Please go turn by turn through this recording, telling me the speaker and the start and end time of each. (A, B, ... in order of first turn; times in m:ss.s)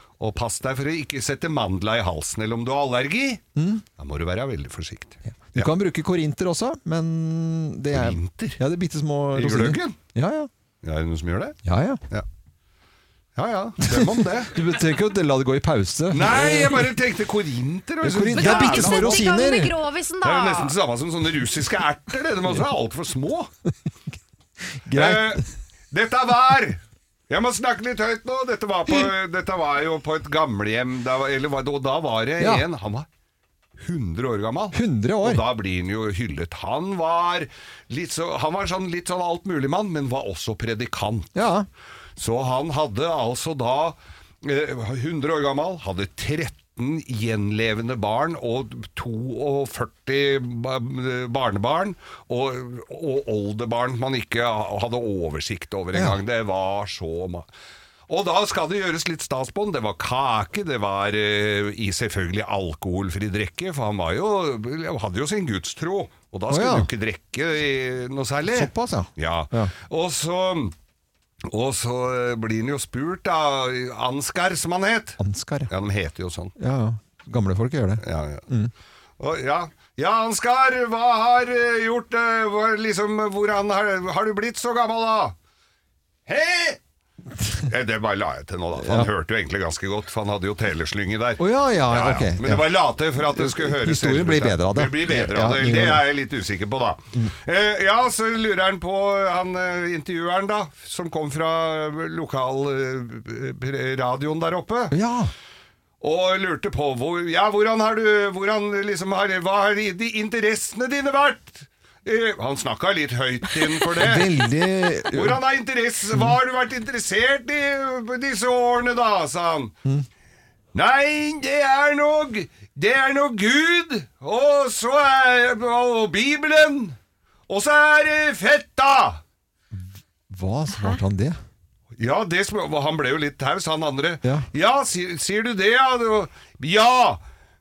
0:00.2-0:03.4 A
0:03.6-0:03.8 B
0:04.0-0:05.7 A
0:05.5-0:10.5 B
0:07.9-0:08.6 A
0:09.3-0:10.0 A
0:10.8-0:11.6 A
0:11.6-0:12.0 B
0:13.4-0:14.6 A
0:13.8-0:16.9 B
0:16.1-0:19.2 A
0:18.0-0:19.8 B
0:18.3-0:20.7 C
0:20.2-0:23.5 A
0:24.8-0:25.4 B
0:24.9-0:33.1 A
0:32.4-0:32.6 B
0:33.8-0:41.4 A
0:34.7-0:35.4 B
0:41.3-0:41.7 B
0:42.2-0:57.5 A
0:55.9-0:56.2 B
0:58.1-1:10.7 A
1:06.5-1:06.9 B
1:08.5-1:09.7 B
1:11.4-1:16.5 A
1:15.2-1:15.7 B
1:16.6-1:18.7 B
1:18.0-1:18.5 A
1:19.2-1:25.3 A
1:26.3-1:26.8 A
1:27.7-1:44.9 A
1:28.8-1:29.1 B
1:31.4-1:36.0 B
1:44.9-1:45.3 B
1:46.0-1:54.4 A
1:54.0-1:55.4 B
1:55.1-1:59.7 A
2:00.7-2:07.0 A
2:07.5-2:09.2 A
2:10.3-2:11.4 B
2:11.9-2:17.2 A